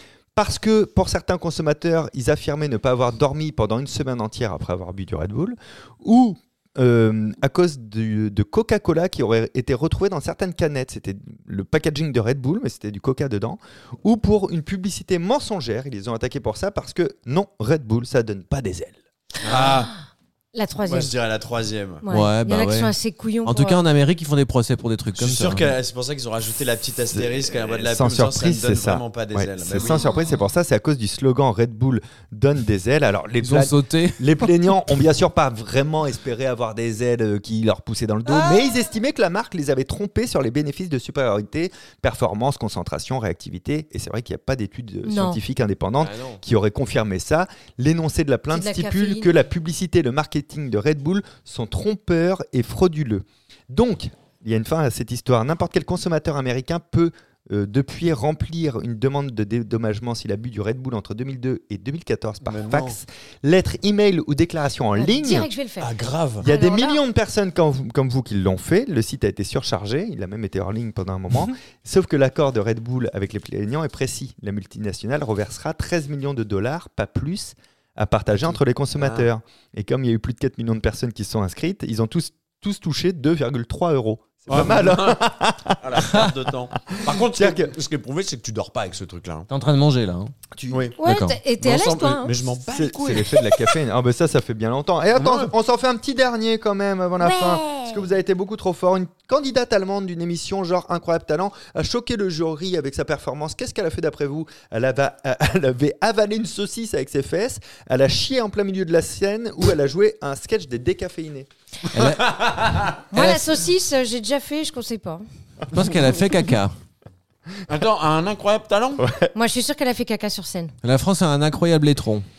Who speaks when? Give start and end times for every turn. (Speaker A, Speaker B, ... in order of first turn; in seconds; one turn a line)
Speaker A: 0.3-19.0
Speaker B: 19.4-19.9
Speaker C: 20.5-21.1
Speaker B: 20.9-22.0
Speaker C: 22.0-23.8
Speaker D: 22.1-22.9
Speaker D: 23.4-25.7
Speaker B: 25.2-30.1
Speaker A: 27.1-65.5
Speaker D: 33.4-34.2
Speaker D: 38.3-38.6
Speaker C: 45.0-45.4
Speaker D: 46.0-46.4
Speaker C: 48.5-49.3
Speaker B: 62.4-63.0
Speaker C: 65.0-65.9
Speaker B: 65.8-66.5
Speaker A: 66.4-86.3
Speaker C: 66.4-67.0
Speaker B: 79.0-79.3
Speaker B: 84.5-89.5
Speaker A: 86.9-87.8
Speaker D: 89.5-90.3
Speaker A: 90.5-90.9
Speaker B: 90.7-91.0
Speaker C: 91.0-92.3
Speaker D: 91.0-91.4
Speaker B: 91.6-93.7
Speaker A: 92.7-111.5
Speaker B: 95.1-95.5
Speaker C: 97.2-98.0
Speaker D: 111.9-113.4
Speaker B: 112.2-112.9
Speaker C: 113.1-115.2
Speaker D: 115.7-116.8
Speaker B: 117.7-119.1
Speaker A: 119.0-119.3
Speaker C: 119.3-120.7
Speaker D: 120.8-122.2